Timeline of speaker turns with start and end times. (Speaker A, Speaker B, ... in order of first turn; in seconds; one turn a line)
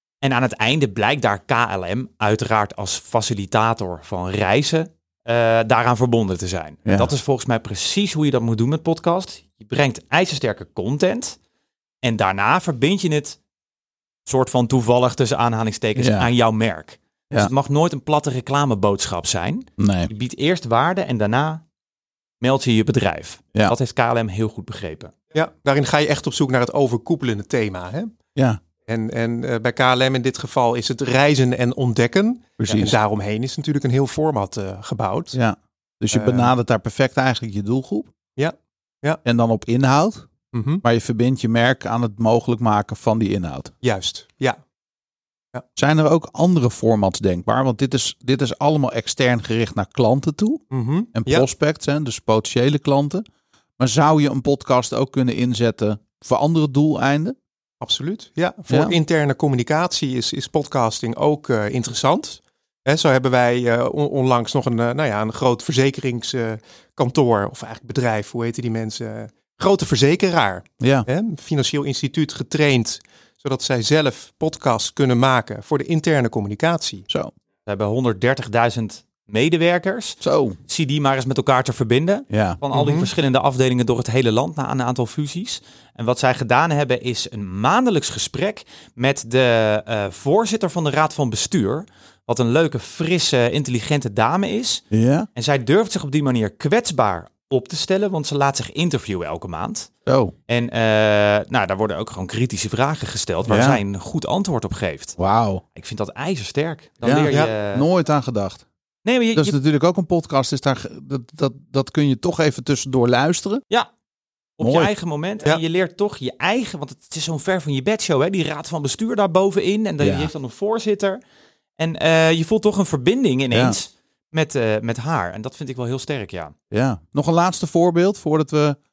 Speaker A: 0.2-11.4
Speaker B: 6.8-7.1
Speaker A: 12.0-13.4
Speaker A: 14.2-21.6
Speaker B: 15.9-16.3
Speaker B: 19.8-20.1
Speaker A: 22.4-25.1
Speaker C: 25.3-28.1
Speaker C: 28.9-35.4
Speaker B: 32.6-33.0
Speaker B: 35.3-38.1
Speaker C: 36.1-36.5
Speaker C: 38.4-39.2
Speaker B: 39.2-40.3
Speaker C: 40.5-40.8
Speaker B: 40.8-43.7
Speaker C: 43.8-44.6
Speaker B: 45.8-50.6
Speaker C: 50.7-51.5
Speaker B: 51.1-53.2
Speaker B: 53.8-57.4
Speaker C: 57.8-77.0
Speaker B: 70.8-71.1
Speaker A: 77.7-94.8
Speaker B: 80.2-80.6
Speaker B: 82.3-82.6
Speaker C: 82.7-83.1
Speaker B: 94.9-95.3
Speaker A: 95.3-99.9
Speaker B: 100.1-100.3
Speaker A: 100.5-105.2
Speaker B: 103.5-103.8
Speaker B: 105.2-105.6
Speaker A: 105.7-107.8
Speaker B: 107.0-108.6
Speaker C: 107.3-107.5
Speaker A: 109.0-109.5
Speaker B: 109.3-113.6
Speaker A: 114.6-121.2
Speaker B: 114.6-114.9
Speaker B: 120.0-120.3
Speaker A: 121.8-126.5
Speaker B: 123.5-123.8
Speaker B: 126.7-128.8